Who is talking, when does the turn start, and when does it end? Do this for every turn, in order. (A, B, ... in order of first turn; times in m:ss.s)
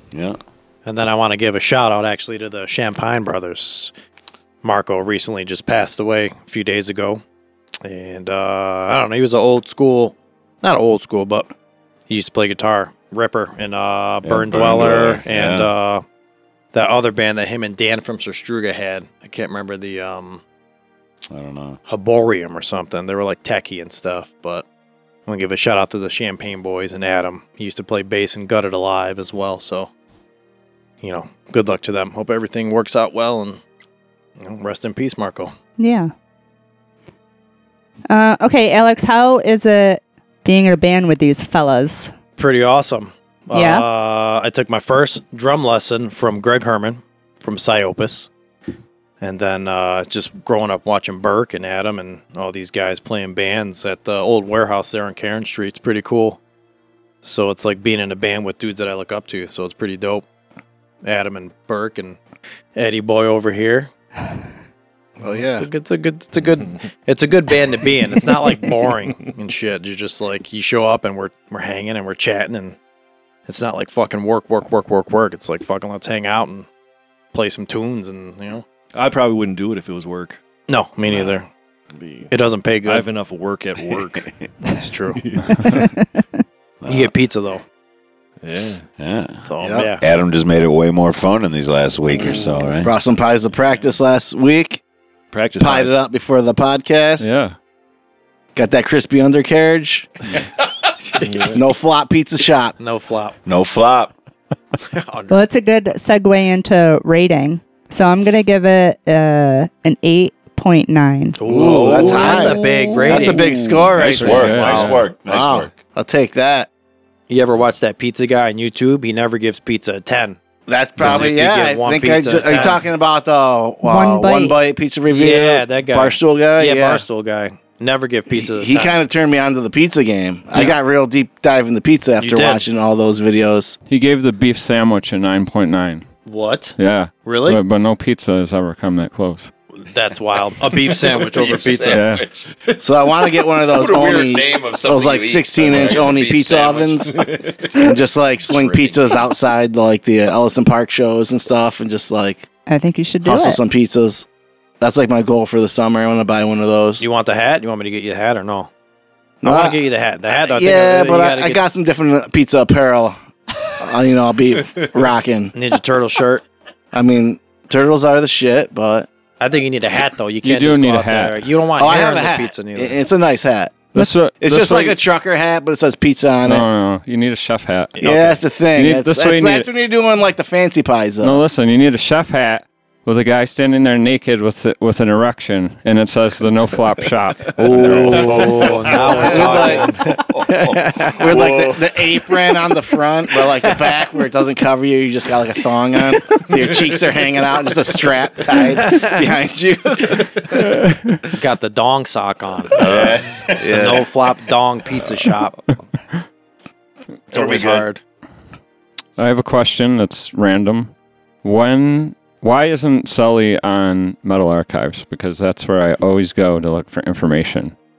0:00.1-0:00.4 A
0:00.8-0:03.9 B
0:04.6-0:07.2 B
0:07.8-0:11.5 B
0:12.1-0:16.0 B
0:14.2-0:15.7 A
0:16.7-0:20.4 B
0:21.3-0:21.8 A
0:21.8-0:24.6 B
0:25.3-0:29.9 B
0:31.0-0:33.6 B
0:34.4-0:35.5 B
0:35.8-0:36.1 C
0:38.1-0:42.1 C
0:42.4-0:48.3 B
0:43.5-0:43.8 C
0:49.2-0:56.4 B
0:57.2-1:00.2 B
1:01.0-1:02.2 B
1:02.7-1:03.9 B
1:05.2-1:05.7 D
1:05.6-1:12.8 B
1:13.5-1:16.7 B
1:17.3-1:18.6 B
1:18.9-1:20.4 E
1:20.7-1:21.5 B
1:22.0-1:22.3 E
1:22.3-1:23.1 B
1:22.8-1:24.3 E
1:24.7-1:25.2 B
1:25.1-1:25.9 E
1:26.8-1:27.1 A
1:26.9-1:27.6 B
1:28.4-1:28.8 E
1:29.0-1:29.4 A
1:29.4-1:30.0 B
1:29.6-1:29.9 D
1:30.0-1:32.9 A
1:32.2-1:32.7 E
1:32.8-1:34.8 D
1:35.3-1:36.0 E
1:35.6-1:37.3 D
1:37.2-1:37.6 F
1:38.5-1:40.1 D
1:41.2-1:41.6 E
1:41.5-1:42.7 D
1:42.8-1:43.4 B
1:43.4-1:44.1 A
1:44.9-1:45.4 B
1:45.3-1:51.4 C
1:51.4-1:53.5 B
1:51.5-1:56.7 D
1:51.6-1:55.8 A
1:54.1-1:54.9 B
1:54.2-1:55.0 F
1:57.3-2:00.4 B
2:00.7-2:07.0 D
2:01.0-2:02.8 B
2:03.8-2:04.6 C
2:05.1-2:09.0 B
2:08.3-2:13.8 D
2:12.2-2:12.6 B
2:13.9-2:16.0 F
2:16.2-2:17.6 B
2:16.8-2:19.5 F
2:19.8-2:22.0 B
2:20.9-2:22.5 A
2:21.9-2:22.2 F
2:22.8-2:32.5 D
2:23.7-2:27.4 A
2:27.2-2:27.8 E
2:28.4-2:29.2 A
2:32.7-2:33.6 C
2:33.2-2:34.2 D
2:34.8-2:37.0 D
2:37.0-2:38.7 B
2:39.4-2:39.8 D
2:39.4-2:41.6 B
2:40.5-2:43.2 D
2:43.8-2:45.5 D
2:45.5-2:46.4 B
2:46.9-2:49.1 D
2:49.4-2:53.0 B
2:50.4-2:51.4 F
2:51.8-2:56.6 D
2:53.9-2:55.0 F
2:56.4-2:58.0 F
2:57.9-2:58.4 B
2:58.0-3:01.4 D
2:58.7-2:59.7 F
3:01.2-3:08.5 F
3:07.6-3:11.3 B
3:07.7-3:12.2 A
3:09.0-3:09.9 D
3:11.2-3:20.5 D
3:21.3-3:25.6 B
3:22.8-3:23.6 A
3:22.8-3:24.0 D
3:27.3-3:28.0 B
3:27.3-3:27.8 A
3:29.2-3:30.9 F
3:31.4-3:37.7 F